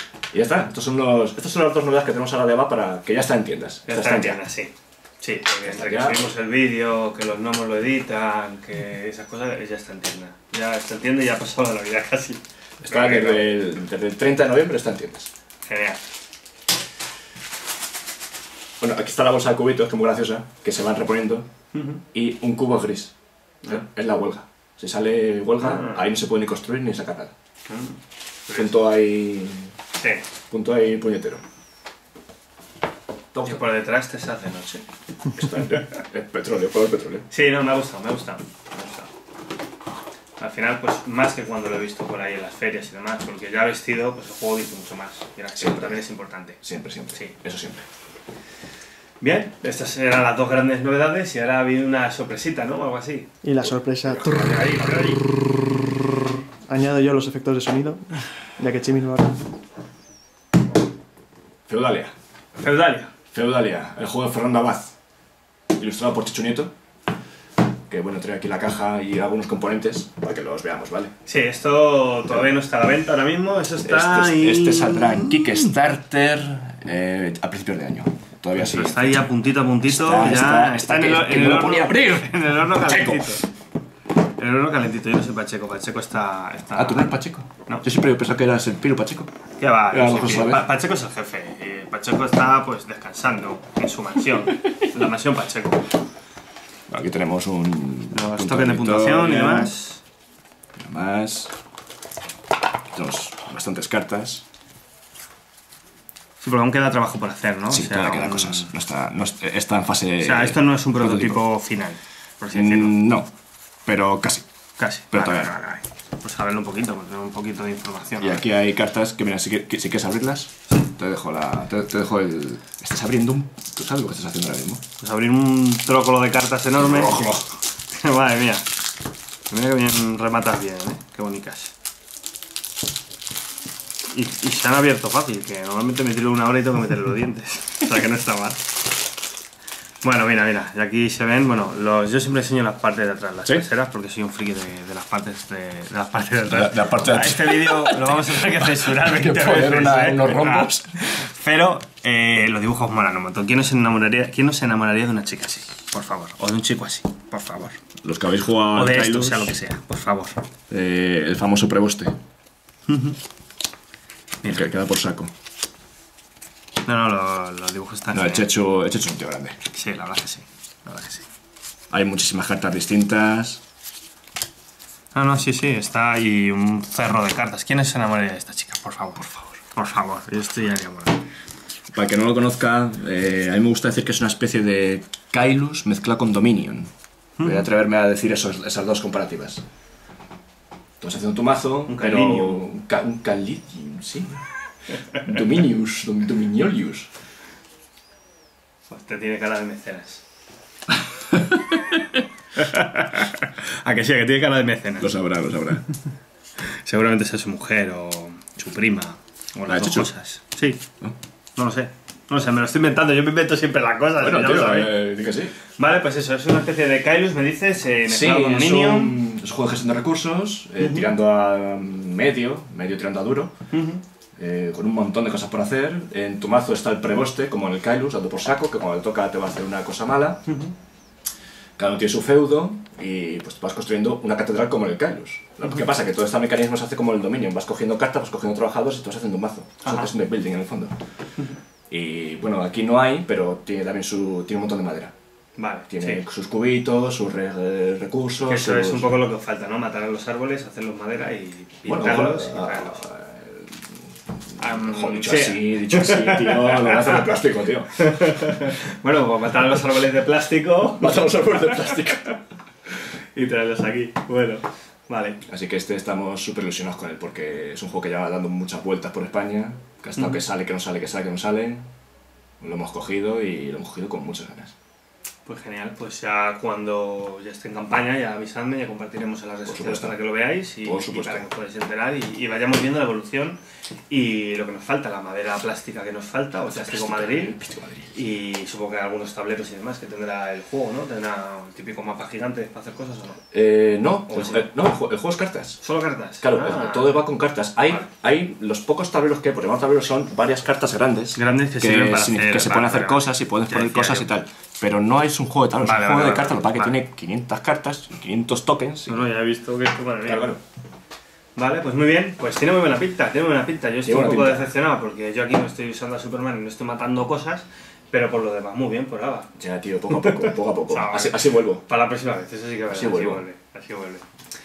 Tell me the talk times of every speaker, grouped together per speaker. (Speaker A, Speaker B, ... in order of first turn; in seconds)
Speaker A: 0.3-4.4, 5.6-6.3, 12.8-15.3, 18.8-21.5, 22.1-23.1, 23.6-27.3, 28.5-29.7, 30.5-31.4, 33.3-33.6, 35.3-37.3, 45.6-46.0, 46.6-47.8, 61.7-62.1, 63.3-64.9, 65.7-66.7, 67.9-71.1, 73.8-79.3, 79.8-83.4, 86.7-89.3, 89.9-90.7, 96.9-99.7, 100.8-101.5, 102.9-104.4, 107.7-111.5, 112.5-113.3, 113.8-114.4, 115.1-115.5, 118.2-124.8, 126.8-127.6, 146.5-150.9, 158.0-159.6, 160.7-162.2, 164.4-165.3, 168.1-169.6, 171.9-173.6, 181.9-189.6, 191.0-194.4, 195.1-197.1, 201.3-202.0, 205.0-205.9, 209.7-210.1, 214.2-215.5, 218.1-223.5, 224.4-230.5, 231.8-240.9, 241.9-245.1, 245.9-249.2, 251.8-258.6, 260.9-262.3, 265.4-271.8, 272.6-274.7, 279.6-280.2, 280.8-281.5, 286.6-288.2, 293.5-295.8, 296.4-309.3, 310.2-310.6, 314.0-314.7, 319.6-321.8, 322.9-323.4
Speaker B: 3.9-13.5, 15.6-16.0, 21.7-22.0, 25.6-26.0, 27.7-28.8, 30.0-30.2, 33.5-34.8, 37.3-39.1, 40.4-46.6, 49.2-53.3, 54.2-55.4, 62.6-63.1, 71.2-75.3, 78.5-83.5, 84.4-87.8, 89.6-95.9, 98.1-100.0, 106.4-108.7, 110.2-113.0, 114.8-118.4, 125.0-127.2, 127.9-128.6, 129.5-131.7, 134.1-138.6, 140.0-157.8, 158.7-160.4, 162.9-163.2, 166.8-168.5, 169.7-171.2, 175.1-181.2, 187.4-187.7, 191.9-192.6, 198.9-200.2, 202.5-205.1, 206.6-210.8, 211.6-215.0, 215.8-219.2, 220.8-221.1, 223.7-224.0, 230.5-230.7, 239.8-240.1, 245.6-246.2, 248.4-253.1, 254.6-257.3, 257.9-262.3, 263.3-265.4, 275.4-287.6, 288.1-293.4, 294.3-294.7, 295.8-297.2, 301.3-304.3, 305.8-307.0, 309.1-310.5, 311.6-319.5, 320.1-324.2
Speaker C: 53.4-54.5, 56.7-59.4